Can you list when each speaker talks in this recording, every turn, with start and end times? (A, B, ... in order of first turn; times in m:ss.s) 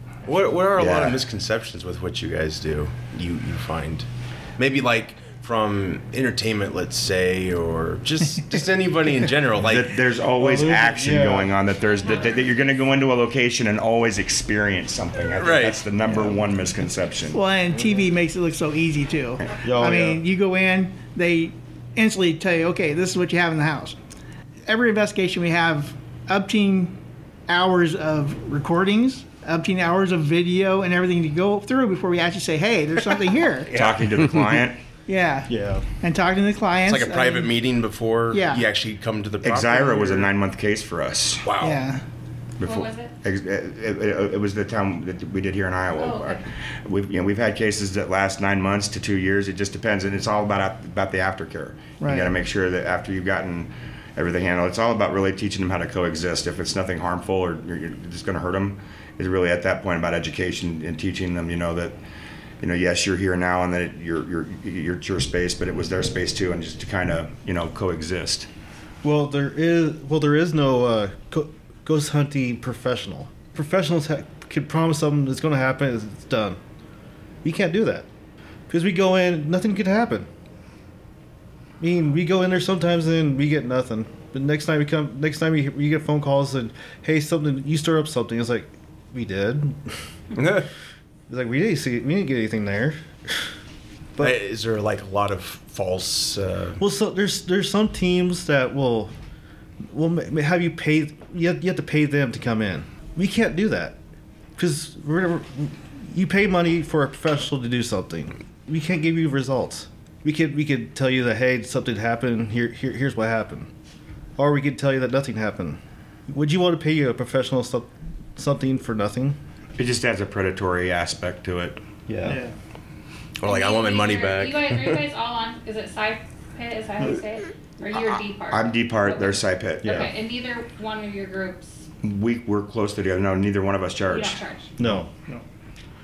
0:00.2-0:10.0 A
0:00.8-0:01.2 B
0:09.6-0:17.4 B
0:10.4-0:11.5 C
0:15.3-0:15.8 A
0:17.3-0:24.0 D
0:19.6-0:20.2 C
0:24.6-0:26.9 D
0:27.5-0:33.7 D
0:33.7-0:34.1 A
0:33.7-0:34.8 B
0:35.1-0:37.5 D
0:35.5-0:35.8 C
0:36.8-0:40.3 A
0:38.3-0:38.6 D
0:39.4-0:41.4 B
0:41.4-0:41.8 A
0:41.6-0:42.0 D
0:42.6-1:02.0 B
0:42.6-0:43.1 E
0:46.0-0:46.4 E
0:52.0-0:52.3 D
1:02.6-1:08.5 B
1:09.0-1:16.6 C
1:17.4-1:18.1 C
1:18.7-1:20.3 C
1:21.8-1:30.0 C
1:30.4-1:30.7 A
1:31.3-1:33.4 C
1:34.2-1:36.8 A
1:36.8-1:39.1 C
1:39.9-1:43.9 C
1:44.6-1:53.7 C
1:54.4-1:59.4 C
1:59.8-2:01.8 B
2:02.1-2:02.5 C
2:03.4-2:05.0 A
2:03.4-2:11.9 E
2:07.9-2:10.1 B
2:09.8-2:10.1 C
2:12.0-2:14.4 B
2:14.1-2:14.6 E
2:14.8-2:15.1 C